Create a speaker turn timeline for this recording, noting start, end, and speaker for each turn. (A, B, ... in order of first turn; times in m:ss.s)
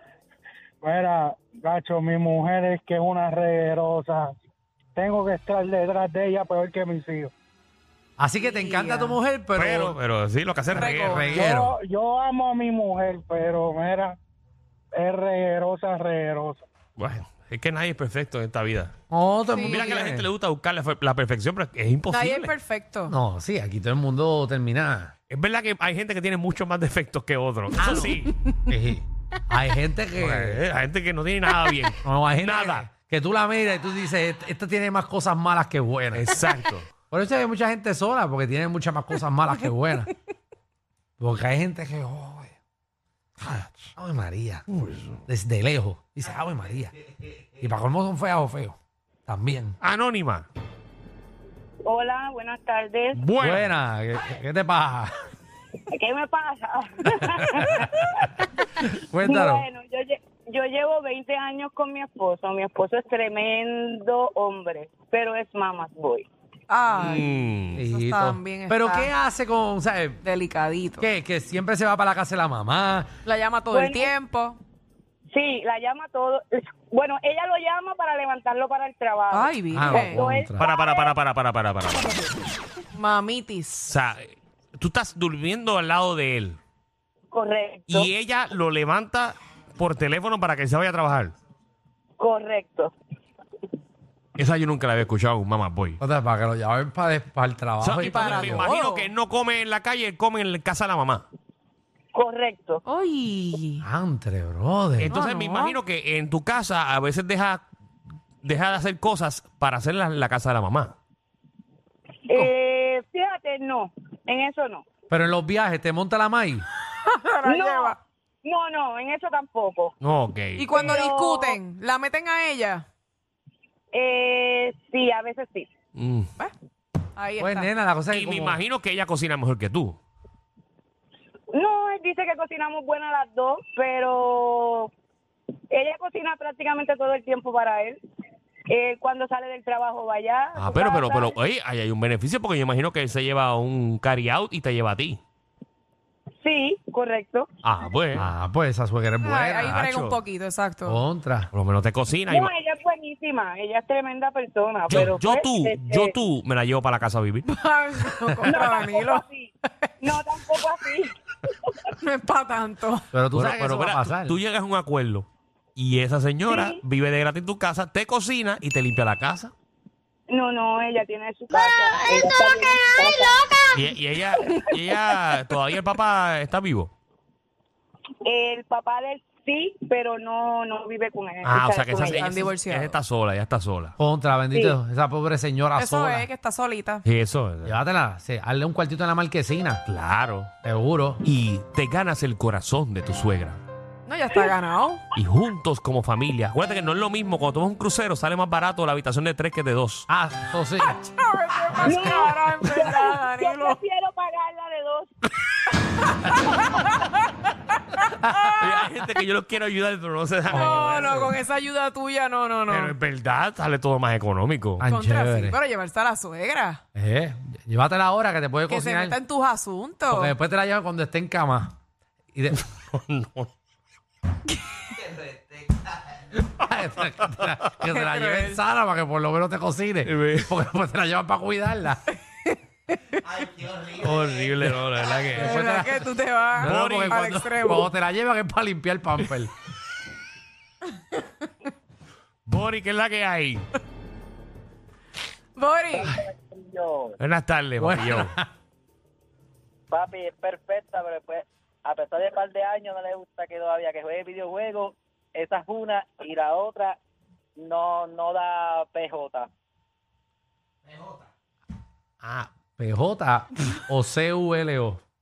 0:00.8-0:04.4 A
0:05.0-0:07.3 A
0:08.2-0:10.0 B
0:08.4-0:09.2 C
0:09.6-0:11.3 D
0:10.7-0:11.3 C
0:11.0-0:11.8 B
0:11.3-0:14.2 A
0:15.0-0:16.6 A
0:17.0-0:18.9 D
0:19.1-0:20.3 B
0:19.5-0:20.0 C
0:19.6-0:22.6 D
0:22.1-0:23.1 C
0:23.1-0:25.1 B
0:25.3-0:28.4 D
0:27.8-0:30.6 B
0:30.2-0:32.9 D
0:32.0-0:36.3 B
0:36.1-0:36.9 D
0:37.1-0:40.1 B
0:41.2-0:42.6 B
0:43.4-0:44.6 B
0:44.7-0:45.2 D
0:45.3-0:46.9 B
0:47.6-0:48.8 B
0:49.3-0:49.8 B
0:49.8-0:50.5 D
0:51.8-0:53.2 E
0:53.1-0:53.7 D
0:53.4-0:55.1 B
0:55.9-0:58.4 E
0:58.8-0:59.7 B
0:59.2-1:06.3 E
1:06.7-1:09.1 C
1:07.0-1:07.8 D
1:07.8-1:10.2 B
1:10.2-1:11.1 C
1:11.0-1:13.1 B
1:13.2-1:14.6 C
1:13.7-1:14.1 E
1:15.3-1:21.1 E
1:19.3-1:20.2 C
1:19.7-1:20.7 B
1:20.6-1:22.2 D
1:23.0-1:23.9 C
1:23.9-1:26.6 D
1:27.3-1:28.1 E
1:27.9-1:31.3 D
1:32.2-1:32.9 E
1:34.4-1:36.0 D
1:36.0-1:38.7 B
1:37.8-1:41.3 D
1:38.0-1:39.1 C
1:42.1-1:42.8 E
1:42.9-1:43.8 C
1:43.8-1:45.2 B
1:45.0-1:47.6 D
1:45.1-1:45.8 C
1:48.4-1:50.9 D
1:52.3-1:54.8 E
1:55.1-1:56.7 B
1:57.0-1:58.0 C
1:57.4-1:59.9 E
2:00.0-2:00.9 D
2:00.6-2:02.8 C
2:00.7-2:01.6 E
2:03.9-2:05.7 E
2:06.0-2:06.3 D
2:07.2-2:07.7 C
2:07.4-2:08.6 B
2:08.1-2:10.0 D
2:11.5-2:14.9 E
2:15.7-2:18.0 E
2:18.7-2:21.3 E
2:20.6-2:25.2 D
2:26.4-2:27.5 E
2:27.6-2:28.3 D
2:28.2-2:29.8 B
2:29.2-2:31.0 C
2:29.7-2:30.2 D
2:30.9-2:31.5 B
2:31.5-2:32.5 D
2:32.3-2:36.2 E
2:34.9-2:37.5 D
2:37.4-2:39.2 C
2:38.3-2:38.5 B
2:38.4-2:41.1 E
2:42.0-2:43.1 C
2:43.1-2:44.4 B
2:43.3-2:49.5 D
2:46.5-2:46.8 E
2:50.3-2:53.4 E
2:53.7-2:56.9 D
2:58.2-3:02.3 E
3:01.4-3:04.0 D
3:02.2-3:03.0 C
3:04.0-3:06.3 B
3:05.8-3:07.0 C
3:07.0-3:07.8 D
3:07.6-3:09.8 B
3:09.9-3:10.5 D
3:10.6-3:11.2 B
3:11.2-3:13.6 D
3:14.1-3:15.0 C
3:15.2-3:20.1 D
3:20.1-3:20.9 B
3:20.9-3:23.8 C
3:21.8-3:22.1 B
3:21.8-3:25.1 E
3:28.4-3:31.4 D
3:30.5-3:33.0 C
3:30.5-3:31.2 B
3:32.7-3:34.8 D
3:34.8-3:35.6 B
3:34.8-3:36.8 C
3:37.0-3:39.2 B
3:38.7-3:40.3 C
3:40.1-3:41.8 B
3:42.3-3:42.6 B
3:42.9-3:43.5 D
3:46.4-3:52.0 B
3:47.9-3:48.6 C
3:50.0-3:50.6 D
3:52.4-3:53.2 C
3:53.6-3:55.7 D
3:54.0-3:59.5 B
3:55.4-3:57.9 C
3:56.6-3:57.3 D
4:02.5-4:03.6 D
4:05.6-4:06.2 C
4:06.4-4:06.8 F
4:07.2-4:08.4 D
4:07.8-4:08.5 B
4:10.4-4:11.4 F
4:13.4-4:14.6 F
4:16.1-4:16.4 F
4:22.2-4:22.5 D
4:22.8-4:25.0 B